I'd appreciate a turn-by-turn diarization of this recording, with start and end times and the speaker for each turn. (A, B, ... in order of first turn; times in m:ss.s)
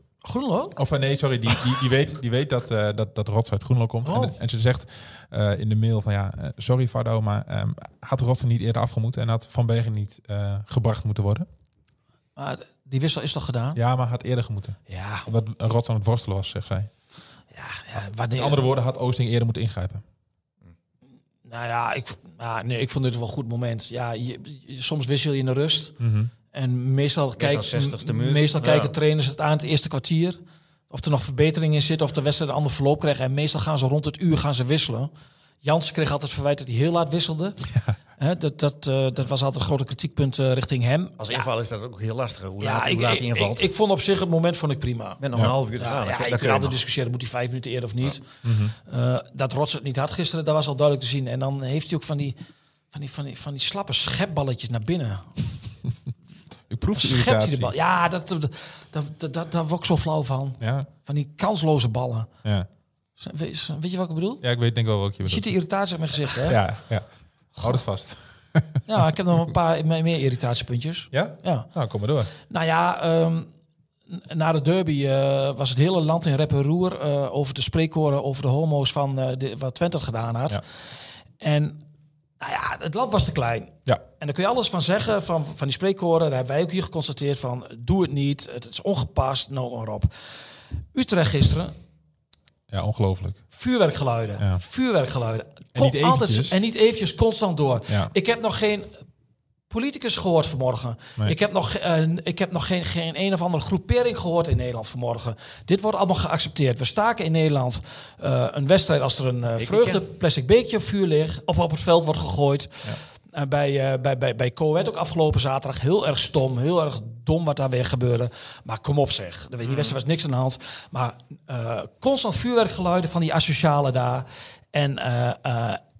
0:00.2-0:00.8 A
0:00.8-0:11.5 B
0:04.0-0:04.3 A
0:12.4-0:13.8 A
0:13.8-0:16.9 B
0:14.9-0:15.3 A
0:17.5-0:18.6 A
0:18.4-0:20.0 B
0:21.5-0:25.9 A
0:26.0-0:26.3 B
0:26.5-0:30.4 A
0:27.4-0:28.9 C
0:30.9-0:35.1 A
0:35.6-0:37.6 A
0:38.2-0:41.4 A
0:41.2-0:43.7 C
0:42.6-0:45.2 A
0:45.2-0:46.8 C
0:45.8-0:48.2 A
0:48.4-0:48.7 B
0:48.8-0:52.4 A
0:52.9-0:55.4 A
0:56.7-0:57.7 B
0:56.9-1:02.3 A
1:00.6-1:00.9 B
1:03.2-1:04.4 A
1:04.4-1:05.5 B
1:05.2-1:06.6 A
1:06.4-1:09.1 B
1:08.9-1:11.7 A
1:11.1-1:12.3 B
1:12.5-1:13.5 A
1:14.1-1:20.6 A
1:21.4-1:21.8 A
1:22.4-1:30.1 A
1:30.9-1:31.7 A
1:32.7-1:33.4 B
1:33.5-1:38.9 A
1:35.7-1:36.6 B
1:39.7-2:05.8 A
1:49.6-1:50.0 C